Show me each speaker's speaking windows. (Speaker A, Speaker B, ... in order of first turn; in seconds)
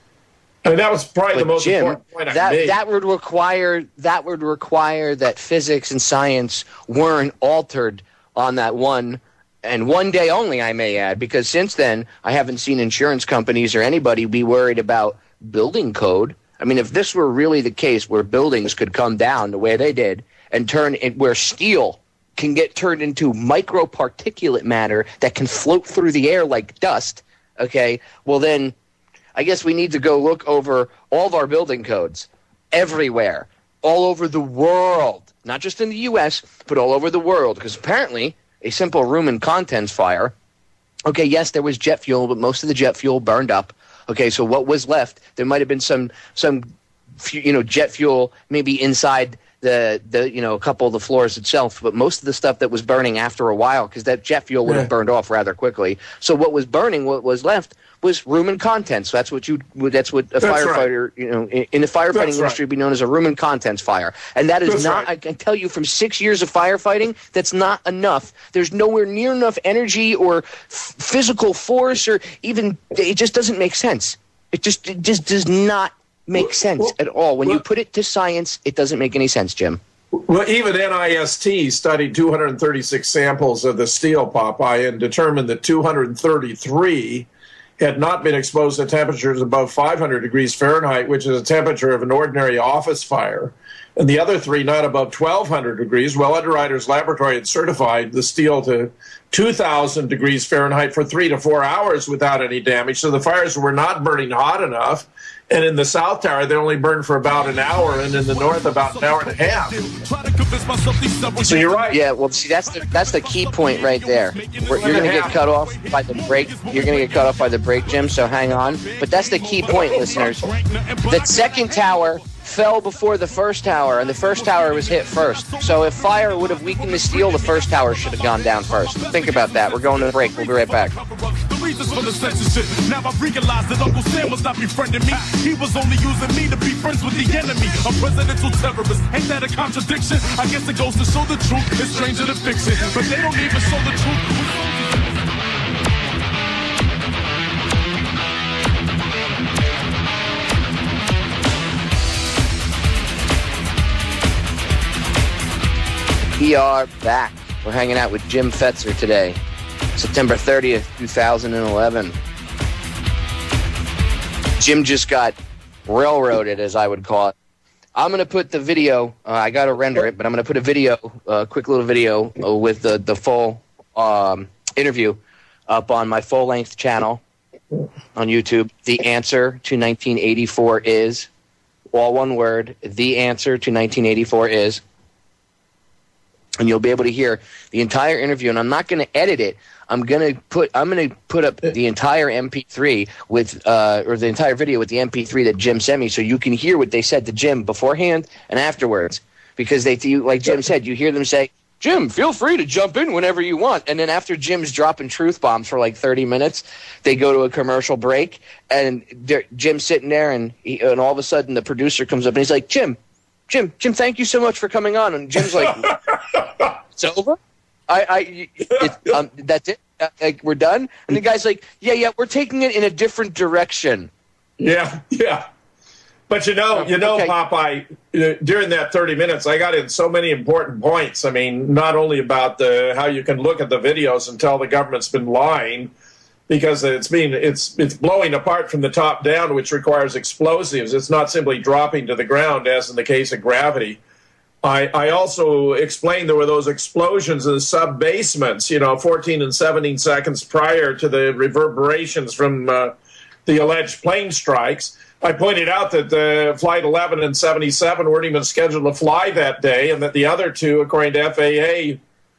Speaker A: 0.7-2.8, 60.4-60.9, 62.1-62.6, 64.7-65.1, 76.4-76.9, 80.1-87.3, 87.8-109.8, 111.4-112.0, 114.7-115.4, 119.7-120.3, 215.6-216.7, 218.8-219.1, 224.6-225.4, 226.3-235.9, 236.5-244.0, 244.6-252.9, 253.5-262.0
Speaker B: 1.3-28.8, 29.4-40.3, 41.1-46.7, 47.2-79.8, 111.9-120.5, 121.1-131.0, 156.4-159.4, 159.9-162.2, 164.6-165.4, 165.9-167.3, 168.0-177.2, 178.2-181.3, 181.9-184.8, 186.6-215.9, 217.0-217.4, 217.9-224.1, 226.7-227.3
Speaker C: 107.3-112.0, 112.5-122.4, 123.9-145.1